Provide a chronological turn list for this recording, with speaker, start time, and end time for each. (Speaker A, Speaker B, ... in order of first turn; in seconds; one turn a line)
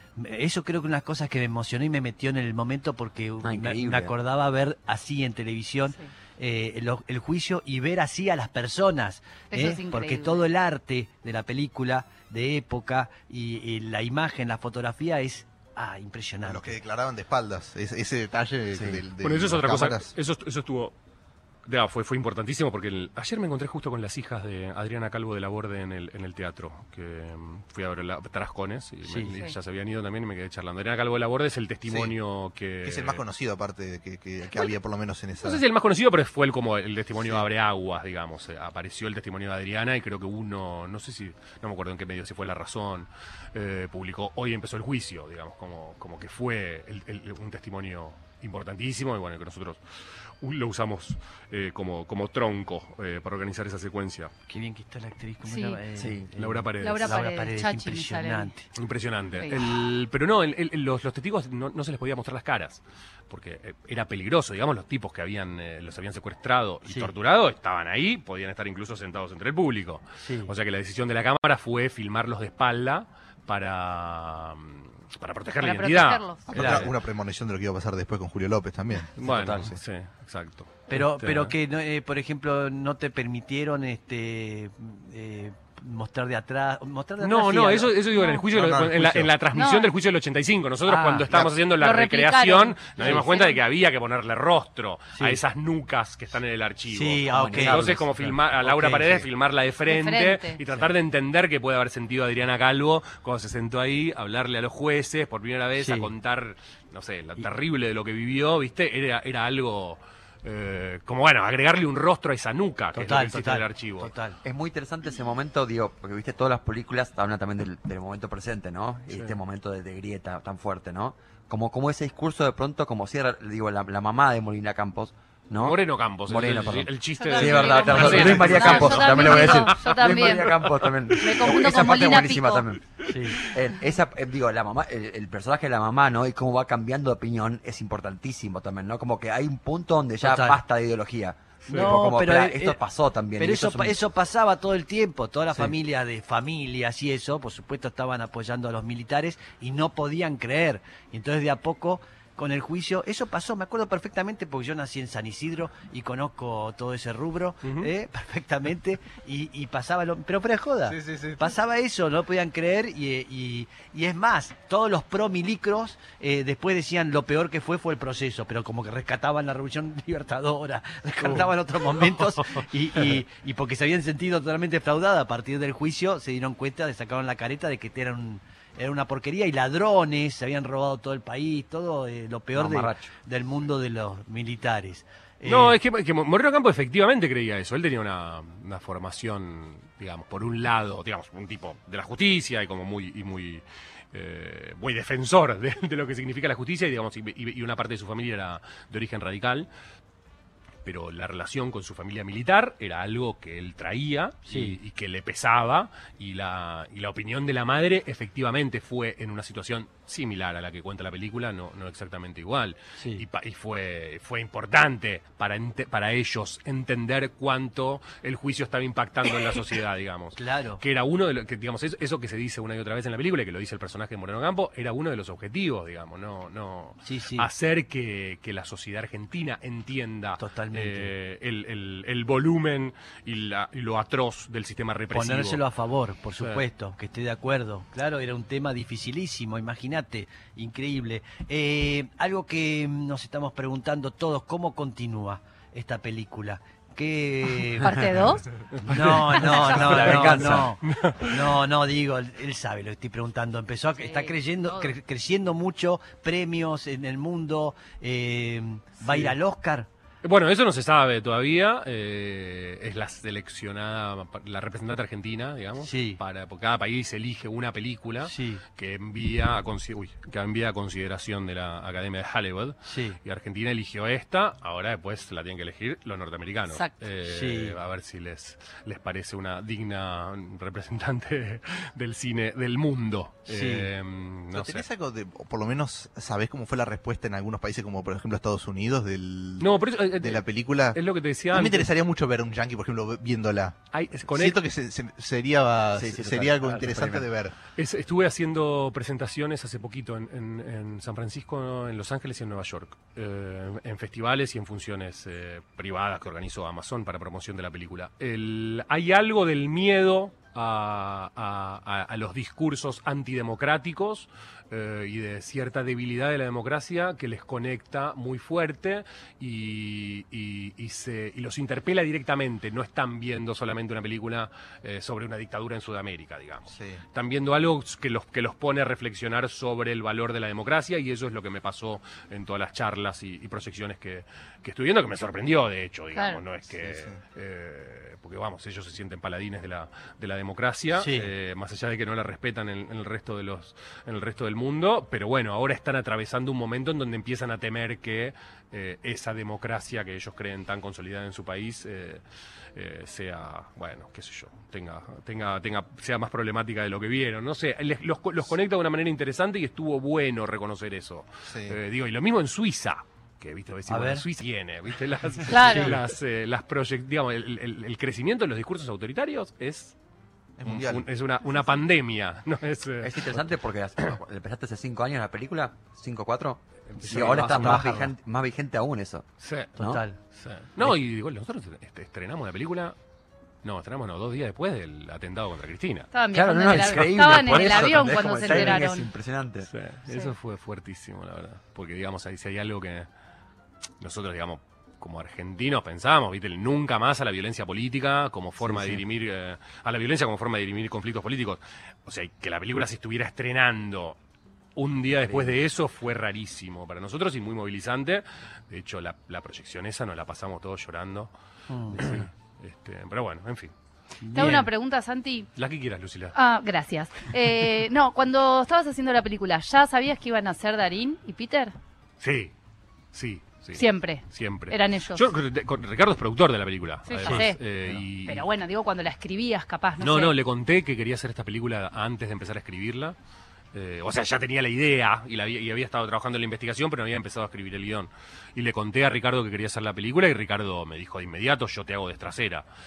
Speaker A: 0.2-16.8
Speaker B: 3.4-4.1
Speaker C: 9.5-10.4
Speaker D: 16.4-20.1
Speaker B: 18.7-19.0
Speaker E: 19.2-20.9
Speaker E: 21.7-33.2
Speaker A: 29.1-29.3
Speaker D: 31.9-32.1
Speaker D: 32.8-35.6
Speaker E: 35.4-54.3
Speaker A: 54.5-58.7
Speaker C: 55.5-55.8
Speaker B: 56.0-56.5
Speaker E: 56.4-57.2
Speaker C: 56.8-58.5
Speaker E: 58.8-76.9
Speaker A: 66.9-67.1
Speaker A: 70.2-70.5
Speaker C: 75.6-76.5
Speaker D: 76.5-79.8
Speaker A: 76.5-76.9
Speaker E: 79.2-81.5
Speaker B: 79.2-79.7
Speaker A: 80.9-87.9
Speaker E: 87.2-114.1
Speaker C: 88.1-88.4
Speaker D: 88.5-89.3
Speaker C: 89.5-89.9
Speaker A: 90.9-91.3
Speaker C: 91.7-93.6
Speaker A: 96.9-99.2
Speaker B: 97.3-98.2
Speaker C: 99.9-100.6
Speaker A: 105.8-106.1
Speaker A: 112.9-114.4
Speaker B: 114.4-144.0
Speaker E: 119.1-119.4
Speaker E: 125.6-131.6
Speaker C: 127.2-132.7
Speaker A: 128.0-128.8
Speaker E: 133.0-133.6
Speaker A: 133.0-133.4
Speaker A: 140.2-140.6
Speaker A: 141.7-142.8
Speaker E: 141.7-142.0
Speaker A: 143.4-185.8
Speaker E: 157.6-157.9
Speaker D: 161.0-161.5
Speaker E: 171.2-172.6
Speaker B: 182.5-183.1
Speaker E: 185.4-199.7
Speaker E: 200.8-235.6
Speaker A: 204.5-204.8
Speaker A: 213.0-213.2
Speaker A: 220.4-220.8
Speaker A: 227.1-227.5
Speaker A: 230.4-231.1
Speaker A: 235.1-248.0
Speaker C: 247.8-248.4
Speaker E: 248.7-251.6
Speaker A: 248.8-259.9
Speaker C: 249.4-250.3
Speaker B: 249.7-250.7
Speaker C: 254.0-254.9
Speaker E: 259.1-259.3
Speaker E: 260.2-284.9
Speaker A: 265.8-266.2
Speaker A: 268.3-268.6
Speaker A: 272.9-273.2
Speaker A: 277.2-277.8
Speaker A: 283.5-283.9
Speaker D: 284.5-291.0
Speaker E: 289.6-291.9
Speaker D: 291.5-293.8
Speaker E: 293.9-294.6
Speaker D: 294.3-297.6
Speaker B: 296.0-297.3
Speaker E: 297.8-352.2
Speaker D: 326.7-327.0
Speaker C: 336.1-336.4
Speaker D: 336.8-337.2
Speaker A: 341.0-341.3
Speaker E: 352.7-369.9
Speaker D: 361.5-361.8
Speaker A: 363.9-364.3
Speaker C: 365.5-366.0
Speaker A: 365.6-366.0
Speaker D: 370.6-371.1
Speaker E: 370.6-374.2
Speaker B: 373.0-379.3
Speaker E: 376.9-377.9
Speaker A: 377.0-378.1
Speaker E: 379.4-382.9
Speaker A: 379.8-380.2
Speaker B: 379.8-380.0
Speaker E: 383.6-386.1
Speaker C: 386.1-389.1
Speaker B: 386.3-389.7
Speaker E: 389.7-393.1
Speaker C: 390.1-390.3
Speaker E: 394.0-404.2
Speaker B: 398.6-399.0
Speaker E: 404.8-411.3
Speaker B: 405.3-405.5
Speaker A: 411.7-412.3
Speaker E: 411.9-413.7
Speaker A: 414.2-414.7
Speaker C: 414.3-415.5
Speaker E: 415.6-416.4
Speaker C: 416.3-421.7
Speaker E: 422.2-422.5
Speaker E: 423.1-428.4
Speaker C: 423.8-425.2
Speaker C: 427.1-427.6
Speaker C: 428.2-430.3
Speaker E: 430.0-433.2
Speaker E: 433.7-442.6